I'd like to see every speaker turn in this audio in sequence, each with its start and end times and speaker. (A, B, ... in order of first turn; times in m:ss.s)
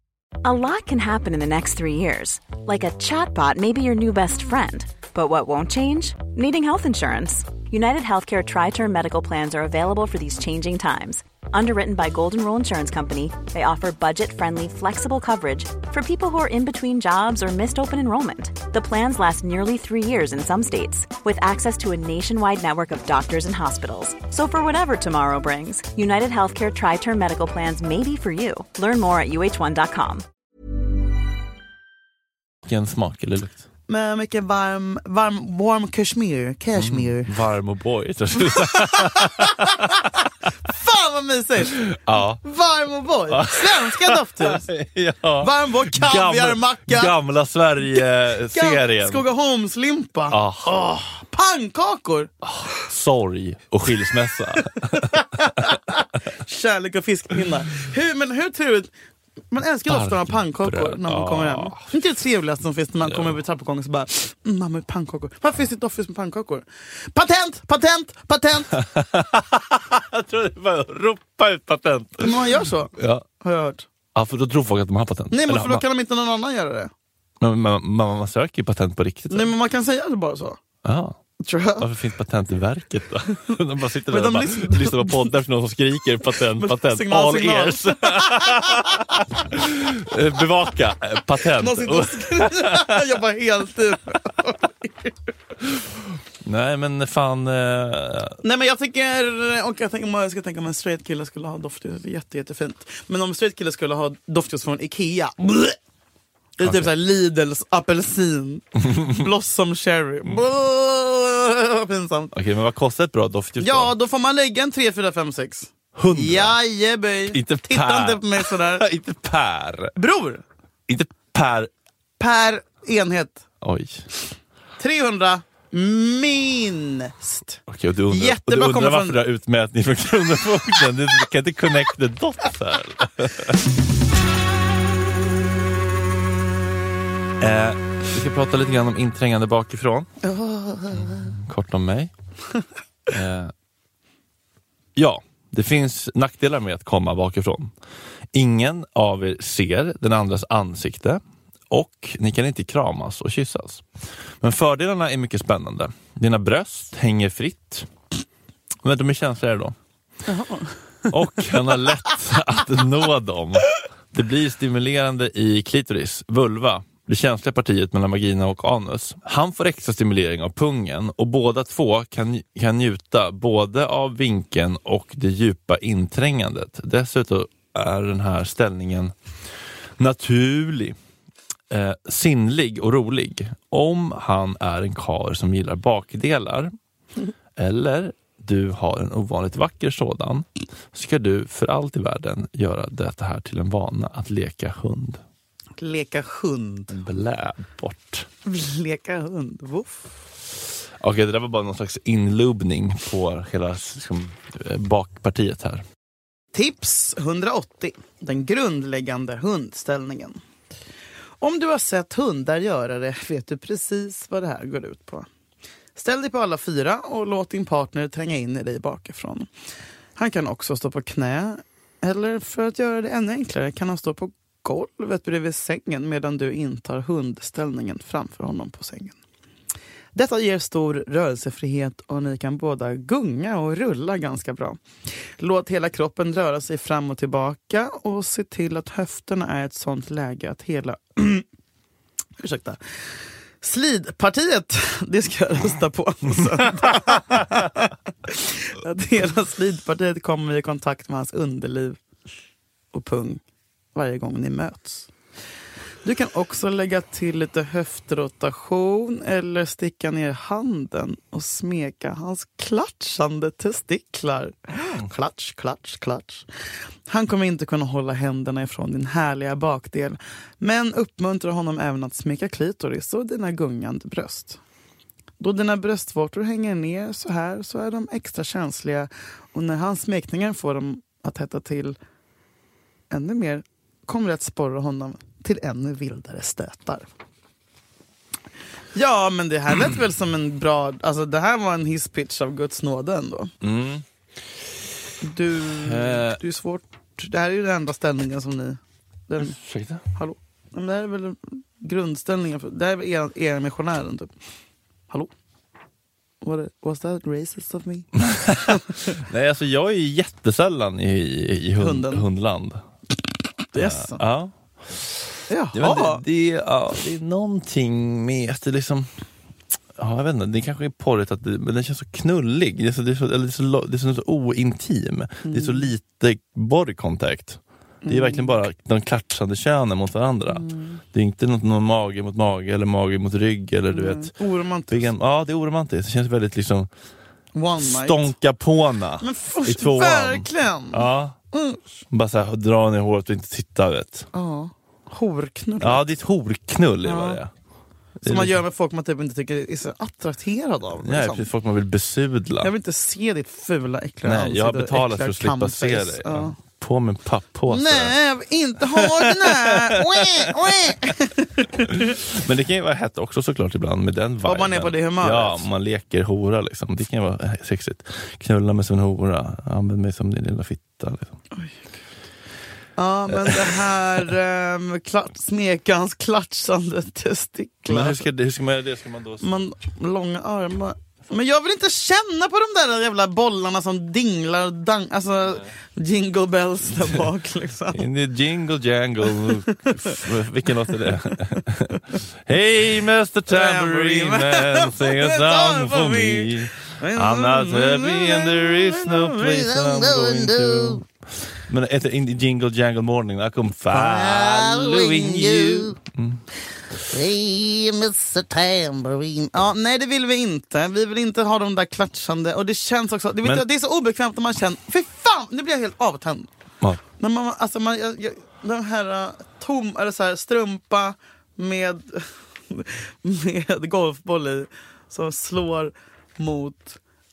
0:00.4-0:30.2 A
0:32.6-0:33.6 B
0:33.9-0:37.3 C
0:36.7-0:40.1 B
0:38.5-0:41.8 C
0:41.7-0:42.4 B
0:42.4-0:44.7 C
0:43.3-0:49.2 B
0:45.4-0:47.1 C
0:48.5-0:52.3 C
0:50.3-0:50.7 B
0:52.4-0:55.8 B
0:54.6-0:58.9 C
0:59.5-1:08.8 C
0:59.9-1:01.9 B
1:03.0-1:03.4 B
1:08.7-1:13.2 B
1:12.2-1:13.8 C
1:14.1-1:15.8 B
1:15.3-1:16.9 C
1:17.4-1:19.5 B
1:19.3-1:20.6 C
1:20.8-1:21.2 B
1:21.4-1:21.9 C
1:21.8-1:33.1 B
1:24.1-1:25.3 C
1:26.4-1:29.2 C
1:31.6-1:35.1 C
1:36.4-1:38.4 B
1:38.4-1:45.8 C
1:46.6-1:52.3 C
1:46.6-1:46.9 B
1:48.9-1:49.2 B
1:52.3-1:53.9 B
1:53.6-1:58.9 C
1:55.9-1:56.6 B
1:57.3-1:59.9 B
2:00.0-2:00.4 C
2:00.9-2:01.7 B
2:02.2-2:03.4 C
2:03.6-2:04.0 B
2:04.8-2:09.2 C
2:07.7-2:13.6 B
2:17.4-2:20.1 B
2:20.2-2:21.3 C
2:20.9-2:22.1 B
2:23.1-2:23.5 B
2:25.0-2:27.7 B
2:28.3-2:33.8 B
2:34.4-2:37.9 B
2:38.8-2:39.8 B
2:40.2-2:41.1 C
2:41.1-2:59.1 B
3:00.0-3:01.0 B
3:01.7-3:06.7 B
3:07.6-3:15.2 B
3:15.8-3:17.0 C
3:16.9-3:18.3 B
3:18.4-3:20.1 C
3:21.0-3:25.8 B
3:26.5-3:30.4 C
3:31.4-3:35.3 C
3:36.0-3:39.5 C
3:40.2-3:49.2 C
3:50.1-3:54.8 C
3:55.4-4:01.4 C
4:02.4-4:02.8 C
4:03.6-4:12.0 C
4:12.9-4:13.4 C
4:13.9-4:15.1 C
4:16.0-4:26.4 C
4:24.7-4:25.0 B
4:27.1-4:34.6 C
4:35.4-4:42.0 C
4:43.1-4:47.1 C
4:48.9-4:53.5 C
4:53.6-4:54.0 B
4:55.2-4:59.6 C
4:55.7-4:56.4 B
4:59.4-5:00.0 B
5:00.1-5:04.3 C
5:06.4-5:09.0 C
5:08.2-5:12.8 B
5:11.8-5:12.2 C
5:13.7-5:14.2 C
5:13.8-5:19.1 B
5:15.5-5:16.2 C
5:20.0-5:34.3 B
5:25.4-5:25.9 C
5:28.0-5:28.6 C
5:30.5-5:31.0 C
5:33.9-5:35.1 C
5:34.9-5:36.9 B
5:37.5-5:38.3 C
5:37.8-5:41.4 B
5:39.2-5:41.8 C
5:42.1-5:44.3 B
5:44.3-5:46.0 C
5:45.8-5:47.5 B
5:47.0-5:47.4 C
5:48.2-5:48.6 B
5:48.2-5:51.4 C
5:51.0-5:52.7 B
5:52.6-5:56.6 C
5:54.2-5:58.2 B
5:57.7-6:02.2 C
5:58.8-6:01.1 B
6:01.9-6:11.3 B
6:04.4-6:05.7 C
6:11.5-6:11.8 C
6:13.0-6:18.2 C
6:13.4-6:13.8 B
6:17.9-6:19.5 B
6:19.4-6:28.0 C
6:27.0-6:27.2 B
6:27.9-6:41.1 B
6:29.4-6:30.2 C
6:30.9-6:31.4 C
6:33.5-6:41.0 C
6:41.7-6:46.4 B
6:43.9-6:46.0 C
6:47.1-6:56.5 C
6:57.2-7:07.0 C